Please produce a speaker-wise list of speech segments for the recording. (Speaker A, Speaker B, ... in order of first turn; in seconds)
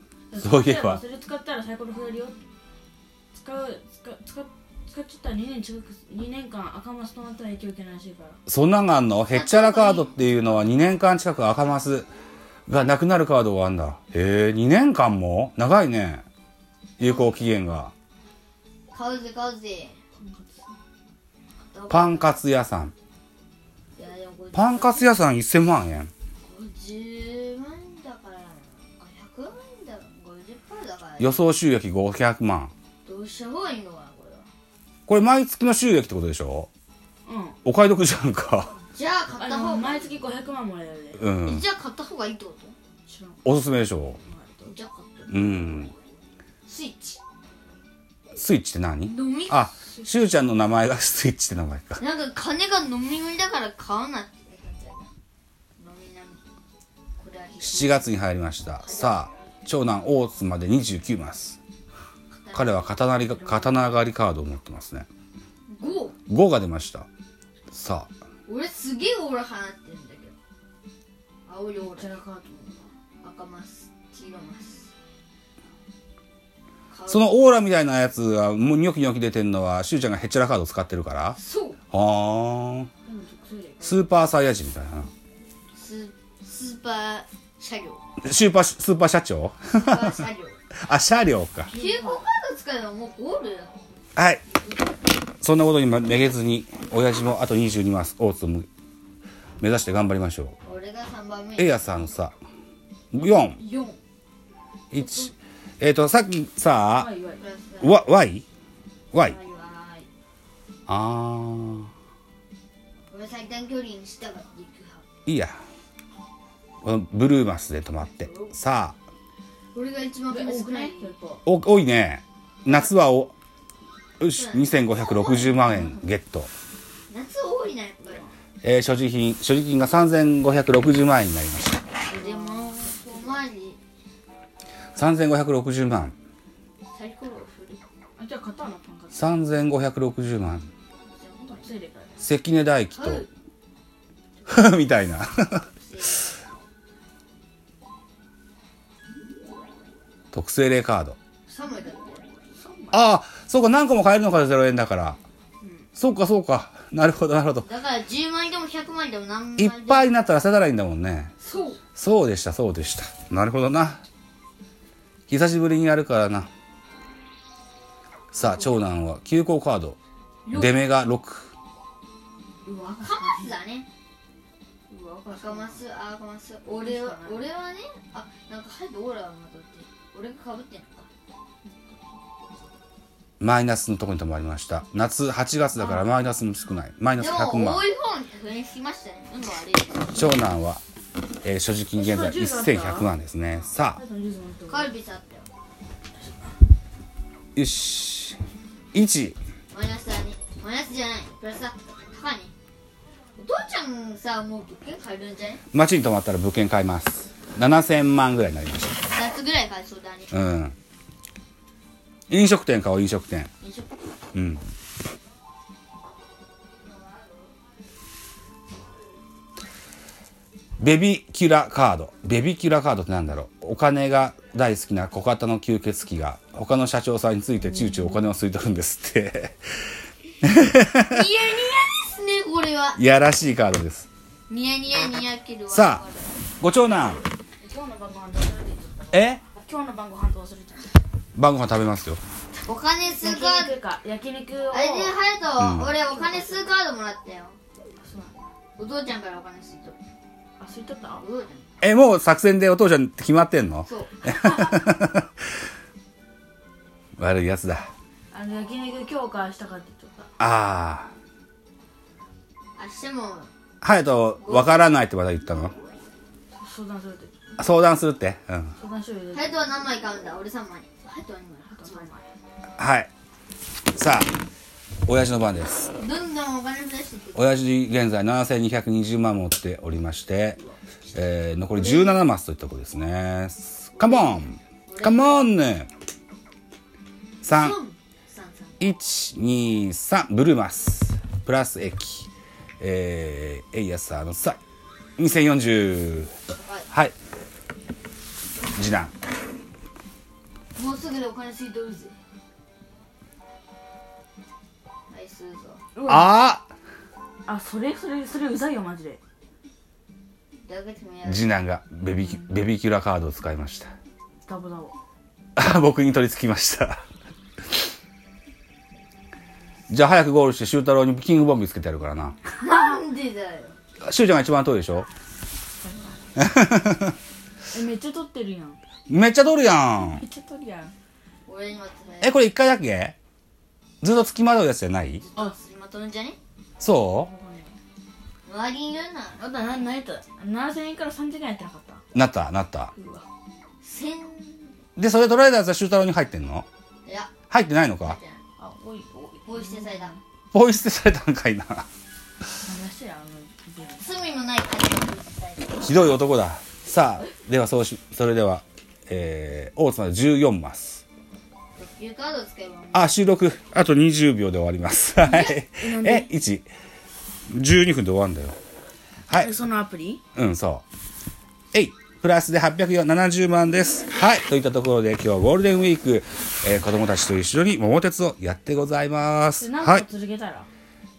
Speaker A: 0.3-2.4, 3.3-8.4, 20.1-20.8, 37.2-37.6, 39.4-41.3, 43.1-43.4, 44.2-44.8, 63.2-64.0, 71.8-72.9, 83.0-84.1, 91.7-92.2, 103.5-104.0, 106.9-107.4, 120.3-121.4, 125.5-126.1, 132.1-133.4, 138.2-139.3, 141.4-142.3, 152.5-153.1, 172.6-173.6, 174.9-175.8, 176.7-177.5, 181.6-182.2, 185.8-186.1, 191.9-193.1, 193.9-194.9, 196.2-196.6, 227.7-228.1, 237.6-241.0, 243.2-245.2, 246.0-246.7, 248.0-248.5, 250.6-251.2, 254.2-255.0, 258.3-260.3, 266.5-267.3, 268.8-269.9, 271.7-272.3, 305.9-306.4, 307.4-309.2, 312.2-312.6, 314.4-315.0, 325.8-326.3, 327.7-328.8, 330.1-330.9, 337.1-337.8, 339.4-342.0, 342.9-343.3, 348.6-350.2, 352.6-354.3, 365.3-366.3, 369.3-370.2, 379.6-380.7
Speaker B: 0.3-1.0, 8.5-12.1, 12.7-16.2, 17.0-17.9, 21.9-22.9, 24.5-26.1, 31.2-32.7, 35.1-36.7, 37.6-38.8, 41.1-41.6, 43.4-44.2, 45.3-45.9, 48.4-52.0, 57.6-61.6, 62.5-65.1, 66.3-67.1, 67.7-68.1, 77.1-81.4, 81.9-82.9, 83.8-85.1, 88.2-90.3, 90.8-91.7, 94.2-94.4, 95.4-98.7, 99.6-100.5, 101.6-102.3, 103.1-103.6, 104.9-107.1, 107.8-108.4, 110.9-111.9, 115.2-115.6, 116.8-119.0, 121.4-123.3, 124.2-126.5, 128.6-131.8, 134.9-136.2, 139.1-140.7, 142.2-143.2, 144.5-145.7, 150.3-151.2, 152.9-155.2, 156.0-157.7, 159.6-161.3, 161.9-164.0, 165.3-166.5, 168.3-170.0, 170.5-171.5, 183.4-187.8, 190.1-190.8, 191.4-194.0, 197.5-198.4, 198.9-199.4, 205.7-209.0, 210.3-210.7, 212.3-213.5, 214.3-214.6, 220.8-229.6, 230.4-231.2, 233.0-234.1, 235.7-236.0, 236.6-237.2, 239.1-239.4, 241.3-242.2, 245.6-245.9, 251.8-255.3, 257.2-257.9, 260.4-261.1, 263.8-265.7, 267.6-268.7, 272.8-273.1, 273.9-274.3, 275.1-275.9, 277.3-280.6, 281.1-285.9, 287.4-287.8, 288.8-292.3, 292.8-294.6, 295.2-296.3, 298.7-299.1, 306.0-306.7, 311.2-313.9, 315.6-317.0, 319.9-322.4, 324.0-325.1, 326.4-327.1, 329.1-330.2, 332.2-333.1, 334.0-335.2, 336.8-337.3, 342.1-342.9, 345.0-346.7, 347.5-348.2, 350.5-351.9, 355.8-361.0, 362.9-366.7, 367.5-368.6, 370.3-370.8, 371.7-380.1
Speaker C: 9.3-10.2, 17.0-17.5, 18.9-20.0, 21.7-22.4, 23.9-25.1, 26.4-31.4, 33.0-34.5, 38.9-40.3, 41.4-42.8, 44.6-45.9, 46.6-47.2, 49.0-49.7, 52.0-55.1, 55.8-56.4, 57.2-58.1, 58.8-59.3, 62.3-63.1, 65.7-66.2, 68.5-70.3, 71.5-72.2, 73.2-74.9, 76.9-77.3, 81.4-81.8, 85.7-88.0, 89.7-90.6, 91.7-93.8, 94.5-95.0, 100.6-101.8, 105.0-105.2, 107.4-108.0, 109.1-110.1, 113.1-115.0, 118.2-118.5, 119.7-121.1, 122.6-123.0, 124.3-125.6, 127.1-128.3, 132.1-133.8, 136.9-137.8, 141.1-141.7, 142.9-143.3, 145.8-146.5, 151.5-152.3, 157.6-160.3, 161.4-161.8, 168.4-168.7, 170.4-170.8, 173.0-173.9, 175.3-181.1, 187.2-190.3, 193.5-193.7, 194.7-195.5, 199.7-202.5, 203.3-205.6, 209.1-210.3, 213.6-214.0, 231.1-233.0, 234.5-236.4, 242.7-243.8, 244.7-247.6, 248.8-250.0, 251.2-251.7, 253.8-254.2, 262.8-263.5, 264.4-264.9, 265.5-265.9, 269.3-272.1, 276.0-277.4, 281.7-282.2, 283.9-285.5, 287.4-288.9, 296.5-296.9, 300.7-302.1, 305.1-305.8, 310.6-311.5, 322.6-323.8, 331.4-332.4, 335.2-336.4, 338.4-339.4, 343.8-344.7, 347.0-347.4, 348.0-348.4, 349.4-350.2, 354.0-355.9, 361.8-363.1